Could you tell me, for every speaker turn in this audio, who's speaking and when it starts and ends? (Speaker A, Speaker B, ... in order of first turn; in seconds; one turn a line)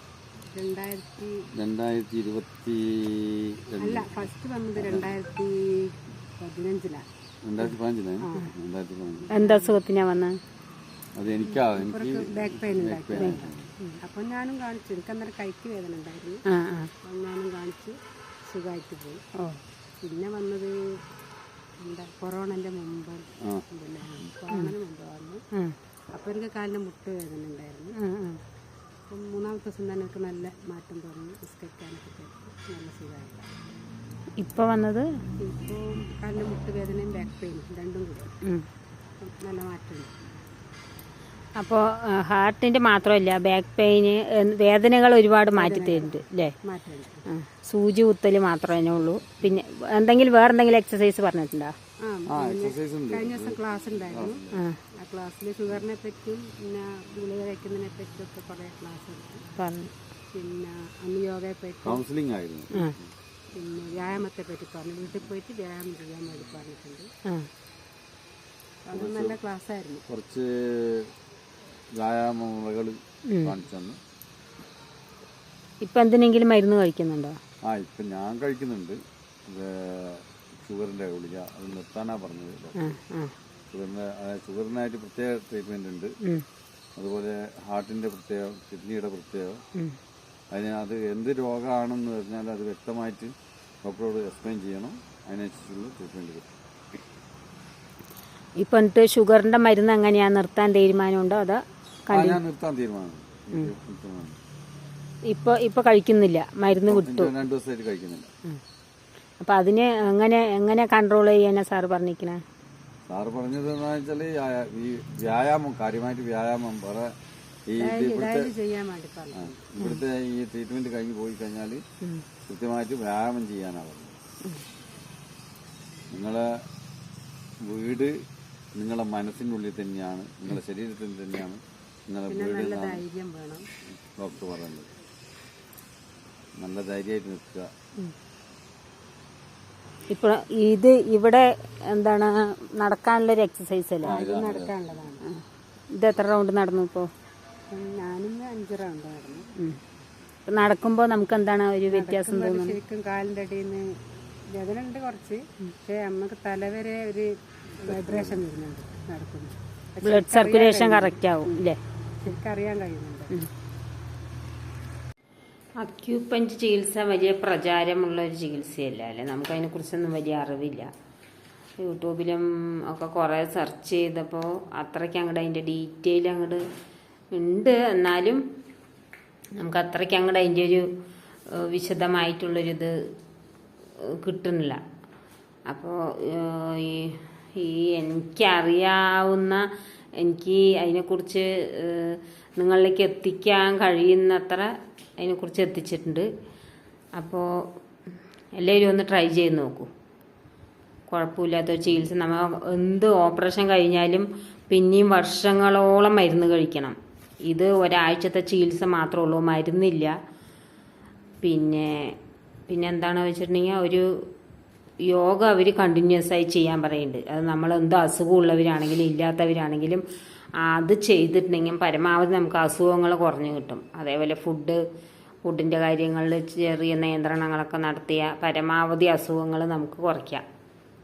Speaker A: 0.5-1.4
Speaker B: 1.6-5.2
Speaker A: 3.8-7.0
Speaker B: 7.4-9.3
Speaker A: 8.2-8.5
Speaker C: 9.3-10.3
Speaker A: 9.3-9.8
Speaker B: 11.1-13.7
Speaker A: 11.4-16.4
Speaker C: 13.2-13.4
Speaker C: 16.5-16.9
Speaker A: 17.0-19.2
Speaker A: 20.0-20.7
Speaker A: 21.8-25.4
Speaker A: 26.1-27.9
Speaker C: 28.0-28.4
Speaker A: 29.1-33.5
Speaker C: 34.4-35.0
Speaker A: 35.4-38.3
Speaker A: 39.2-40.1
Speaker C: 41.6-46.5
Speaker A: 45.5-47.2
Speaker C: 47.3-51.7
Speaker A: 52.0-59.5
Speaker B: 52.2-54.6
Speaker C: 54.5-54.8
Speaker C: 59.6-59.9
Speaker A: 60.3-62.0
Speaker B: 61.8-63.0
Speaker A: 63.5-67.1
Speaker A: 68.8-70.0
Speaker B: 68.9-69.4
Speaker B: 70.1-71.1
Speaker B: 71.9-74.0
Speaker C: 73.3-73.5
Speaker C: 75.8-77.3
Speaker B: 77.6-82.9
Speaker C: 82.8-83.3
Speaker B: 83.7-86.1
Speaker B: 87.0-89.6
Speaker B: 90.5-96.5
Speaker C: 98.6-102.4
Speaker B: 102.1-104.3
Speaker C: 105.3-107.3
Speaker B: 106.9-108.3
Speaker C: 109.4-112.4
Speaker B: 113.1-117.1
Speaker B: 117.7-118.5
Speaker A: 117.8-119.6
Speaker B: 119.3-121.8
Speaker B: 122.4-124.2
Speaker B: 126.1-126.5
Speaker B: 127.6-128.1
Speaker B: 128.7-133.0
Speaker A: 132.3-133.7
Speaker B: 134.0-134.9
Speaker B: 136.6-137.7
Speaker C: 140.1-144.2
Speaker A: 144.0-145.2
Speaker B: 144.1-144.8
Speaker C: 145.2-147.1
Speaker A: 147.7-149.4
Speaker C: 150.5-152.8
Speaker A: 151.9-153.8
Speaker A: 154.5-157.3
Speaker A: 157.8-161.5
Speaker B: 157.8-158.4
Speaker C: 160.0-161.8
Speaker A: 162.2-163.3
Speaker C: 165.8-170.9
Speaker C: 171.8-176.6
Speaker C: 177.3-178.4
Speaker C: 179.6-180.8
Speaker C: 181.7-182.9
Speaker C: 184.2-184.8
Speaker C: 185.7-189.6
Speaker C: 190.2-194.7
Speaker C: 195.2-196.2
Speaker C: 197.1-197.4
Speaker C: 198.6-199.9
Speaker C: 201.1-206.9
Speaker C: 207.5-210.1
Speaker C: 211.4-212.1
Speaker C: 212.7-214.0
Speaker C: 215.1-220.0
Speaker C: 220.7-224.8
Speaker C: 225.4-230.4